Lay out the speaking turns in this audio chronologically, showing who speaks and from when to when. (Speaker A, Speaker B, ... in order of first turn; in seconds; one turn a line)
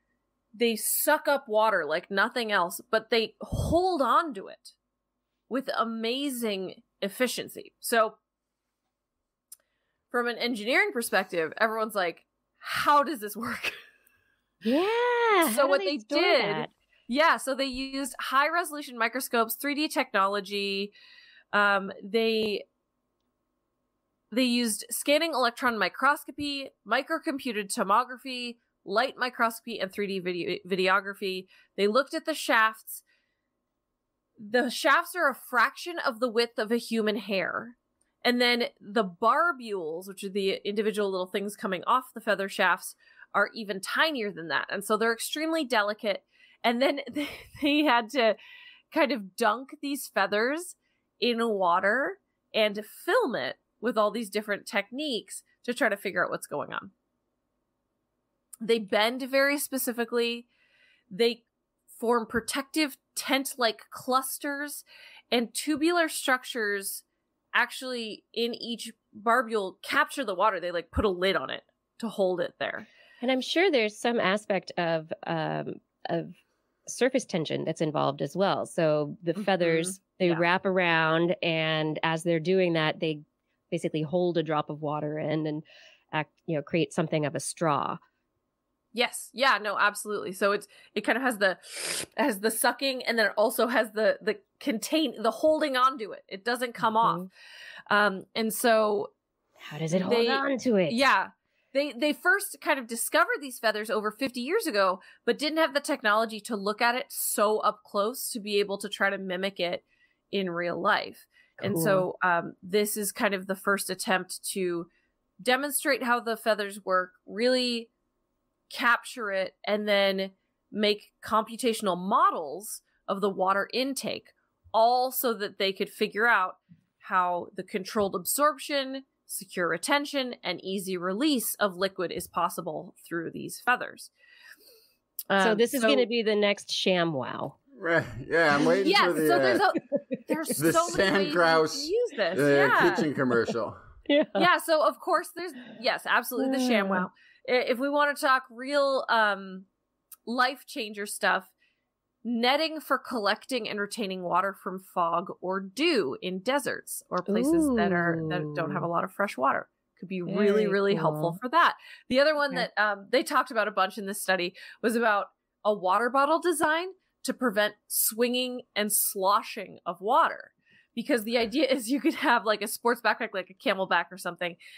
Speaker A: 0.6-4.7
Speaker A: 5.5-8.2
Speaker A: 10.1-13.8
Speaker B: 14.6-16.7
Speaker A: 15.4-20.9
Speaker A: 21.5-22.6
Speaker A: 24.3-33.0
Speaker A: 34.4-48.4
Speaker A: 48.9-56.9
Speaker A: 58.6-60.5
Speaker A: 61.1-61.4
Speaker A: 62.0-72.9
Speaker B: 73.2-88.0
Speaker A: 79.4-80.5
Speaker A: 88.9-97.3
Speaker B: 97.0-97.3
Speaker A: 97.9-99.1
Speaker B: 99.6-101.0
Speaker A: 99.9-114.9
Speaker B: 111.6-112.1
Speaker A: 115.4-117.9
Speaker A: 118.7-134.1
Speaker A: 135.3-136.1
Speaker B: 135.4-137.6
Speaker C: 137.7-139.7
Speaker A: 138.8-143.1
Speaker C: 140.6-143.8
Speaker B: 144.1-144.5
Speaker A: 144.4-149.7
Speaker B: 146.4-147.1
Speaker A: 150.3-151.5
Speaker A: 152.2-174.6
Speaker B: 157.3-158.9
Speaker B: 160.3-161.4